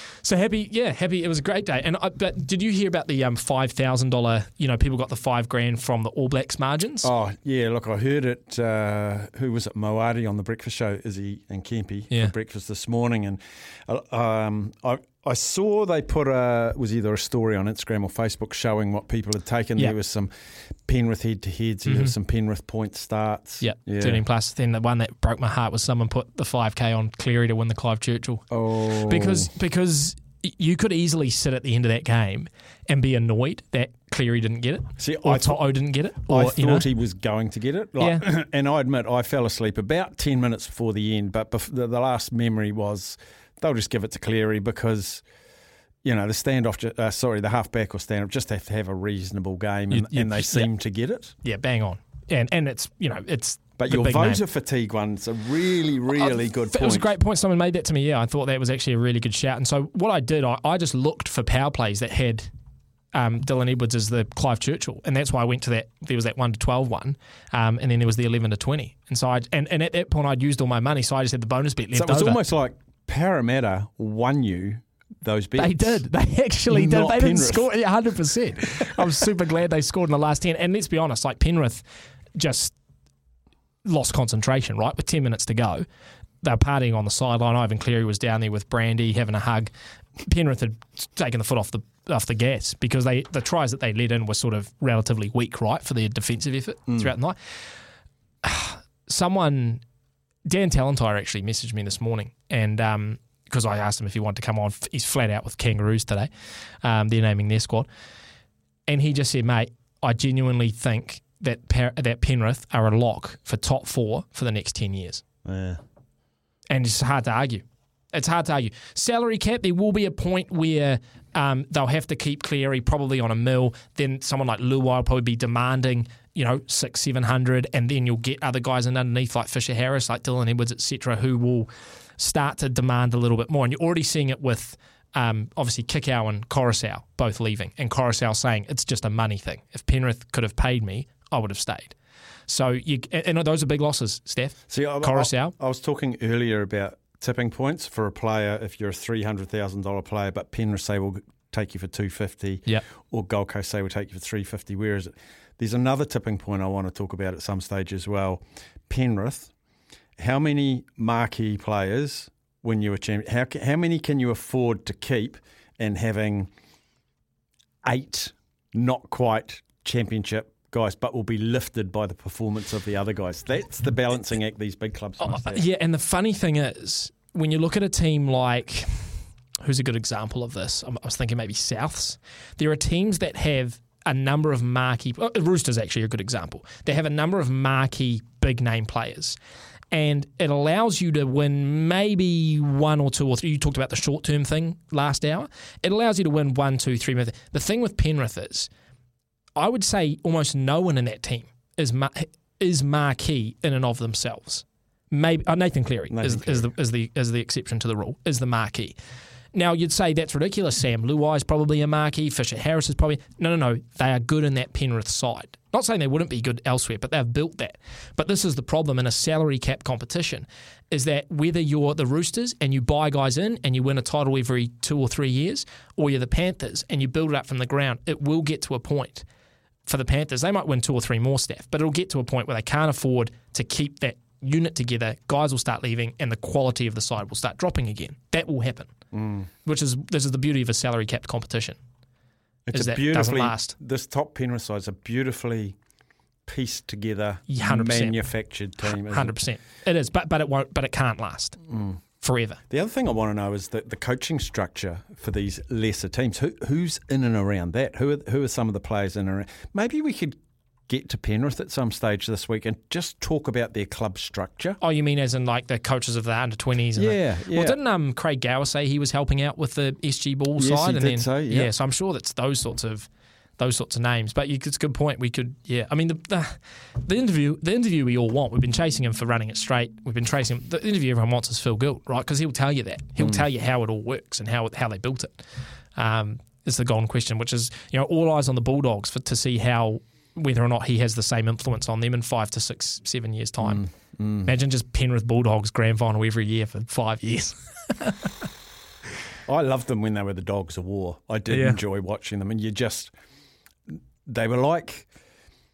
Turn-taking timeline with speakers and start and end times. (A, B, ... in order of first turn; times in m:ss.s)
0:00.2-0:07.1 A
0:07.0-0:20.3 B
0:20.9-0:24.2 B
0:21.9-0:22.1 A
0:23.6-0:36.9 A
0:28.5-0:29.5 B
0:35.0-0:35.6 B
0:36.3-0:45.2 B
0:38.0-0:38.2 A
0:46.0-0:51.4 B
0:49.9-0:50.7 A
0:51.4-0:54.4 A
0:53.8-0:57.1 B
0:56.1-1:02.5 A
1:03.1-1:12.4 A
1:11.9-1:16.0 B
1:15.6-1:22.8 A
1:16.7-1:17.7 B
1:23.8-1:25.8 A
1:26.4-1:37.4 A
1:38.4-1:39.8 A
1:40.5-1:46.3 A
1:46.8-1:47.9 A
1:48.9-1:55.2 A
1:55.4-1:55.8 B
1:56.7-2:22.0 A
2:22.5-2:25.5 A
2:24.7-2:39.5 B
2:40.2-2:46.5 B
2:47.8-2:55.6 B
2:55.2-3:09.4 A
3:09.9-3:18.7 A
3:19.6-3:29.0 A
3:26.1-3:26.7 B
3:29.5-3:49.2 A
3:49.9-3:58.9 A
3:59.1-3:59.5 B
3:59.6-4:01.8 A
4:02.7-4:05.8 B
4:02.7-4:03.8 A
4:06.5-4:09.4 B
4:07.5-4:08.2 A
4:08.8-4:11.7 A
4:11.7-4:12.0 B
4:12.2-4:12.6 A
4:12.7-4:20.4 B
4:20.9-4:24.8 B
4:24.8-4:45.4 A
4:27.0-4:27.8 B
4:30.6-4:31.7 B
4:43.2-4:43.4 B
4:46.0-4:53.8 A
4:53.6-4:54.5 B
4:54.4-4:58.5 A
4:59.5-5:03.1 B
5:01.5-5:01.8 A
5:04.2-5:05.1 B